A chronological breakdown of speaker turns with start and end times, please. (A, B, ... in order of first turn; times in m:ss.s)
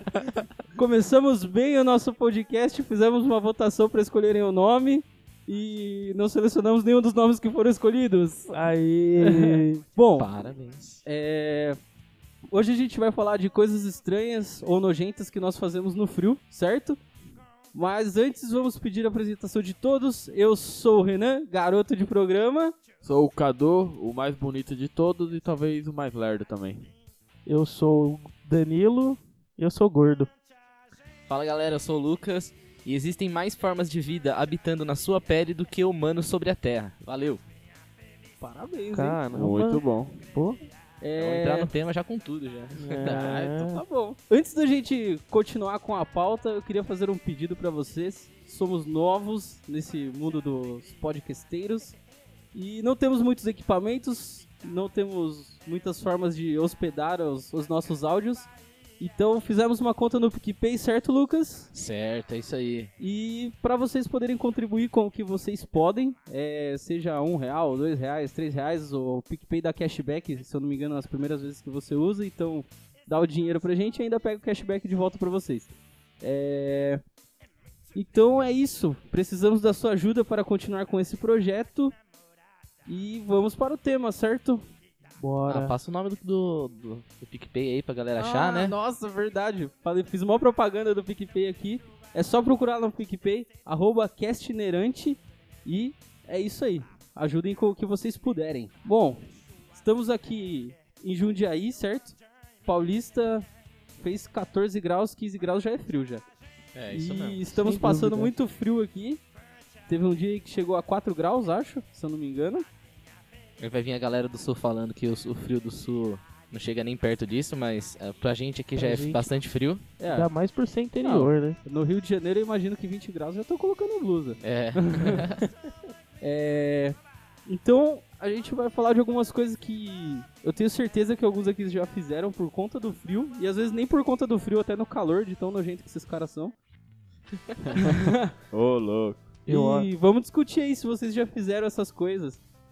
0:00.7-0:08.6 A
0:08.5-0:09.7 B
0:09.2-0:10.3 A
0:10.2-0:11.0 C
0:11.0-0:11.8 A
0:12.5-0:17.0 A
0:17.7-0:22.7 A
0:23.0-0:26.9 D
0:27.4-0:30.3 B
0:31.3-0:37.4 C
0:38.4-0:39.2 A
0:38.9-0:40.6 B
0:39.3-0:40.2 D
0:41.0-0:41.7 A
0:41.2-0:43.4 C
0:42.8-0:43.8 B
0:43.0-0:52.0 A
0:52.5-1:01.7 A
1:01.7-1:02.9 C
1:03.0-1:17.0 A
1:17.9-1:21.9 A
1:22.8-1:24.6 A
1:25.2-1:25.7 B
1:25.5-1:28.7 C
1:28.2-1:43.4 A
1:44.0-1:46.2 A
1:46.7-1:47.4 C
1:46.9-1:49.2 A
1:47.5-1:48.3 B
1:49.9-1:52.6 A
1:53.6-1:59.8 C
1:58.8-1:59.3 B
2:00.0-2:00.3 A
2:00.1-2:01.6 B
2:01.0-2:05.3 A
2:04.4-2:05.4 C
2:06.2-2:16.5 A
2:17.6-2:19.3 D
2:17.8-2:18.3 A
2:19.4-2:22.4 A
2:19.5-2:19.9 B